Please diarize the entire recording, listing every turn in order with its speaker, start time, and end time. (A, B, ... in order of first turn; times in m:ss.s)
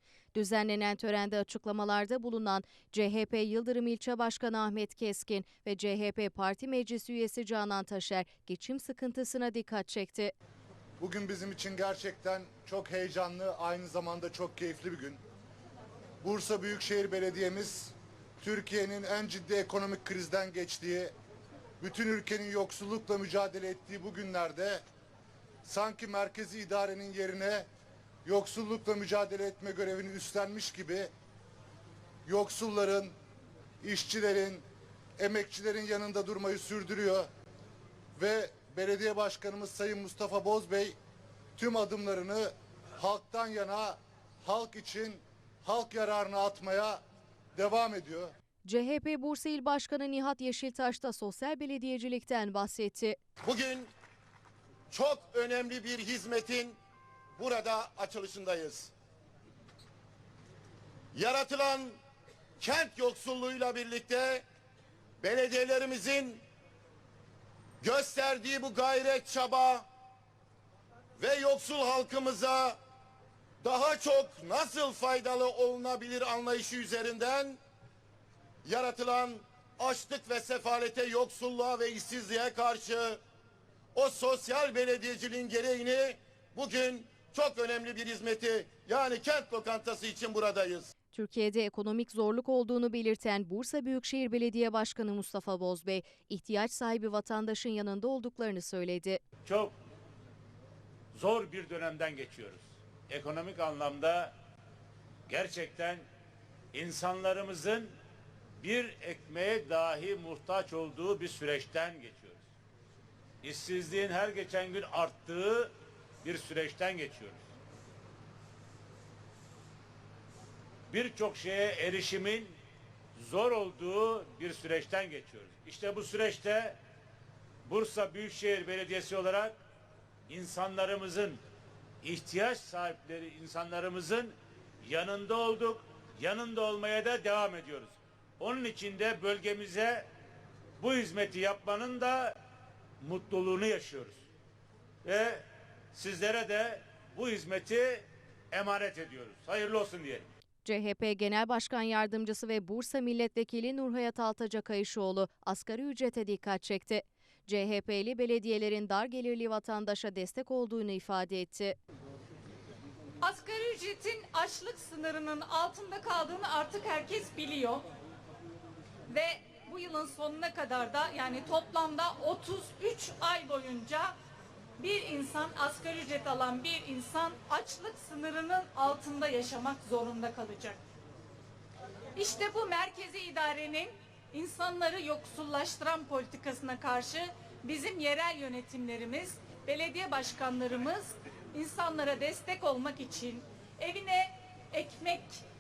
0:00.3-0:10.3 A
0:11.0-0:15.2 B
0:16.2-0:21.1 B
0:21.8-0:24.8 B
0:25.6-0:27.7 B
0:28.2-0:31.1 B
0:32.3-0:33.1 B
0:33.8-0:34.6 B
0:35.2-0:37.3 B
0:38.2-0:41.0 B
0:41.6-0:47.0 B
0:47.6-0:48.3 B
0:48.6-0:53.2 A
0:53.4-0:53.9 C
0:54.9-0:56.8 C
0:57.4-0:58.9 C
1:01.1-1:02.0 C
1:02.6-1:04.4 C
1:05.2-1:06.4 C
1:07.8-1:09.9 C
1:11.2-1:12.8 C
1:13.6-1:17.6 C
1:18.6-1:23.2 C
1:23.9-1:30.9 C
1:31.1-1:39.2 A
1:39.4-1:39.7 D
1:41.1-1:44.3 D
1:45.3-1:46.0 D
1:46.7-1:47.9 D
1:48.6-1:52.4 D
1:53.4-1:55.7 D
1:56.2-1:57.4 D
2:00.9-2:02.6 D
2:03.2-2:06.8 D
2:07.6-2:09.6 D
2:10.3-2:11.4 D
2:12.0-2:20.1 D
2:20.8-2:22.4 D
2:23.0-2:24.2 D
2:25.0-2:25.4 D
2:25.9-2:30.3 D
2:30.6-2:41.8 A
2:43.2-2:47.8 E
2:49.1-2:54.2 E
2:54.8-3:00.8 E
3:02.2-3:15.4 E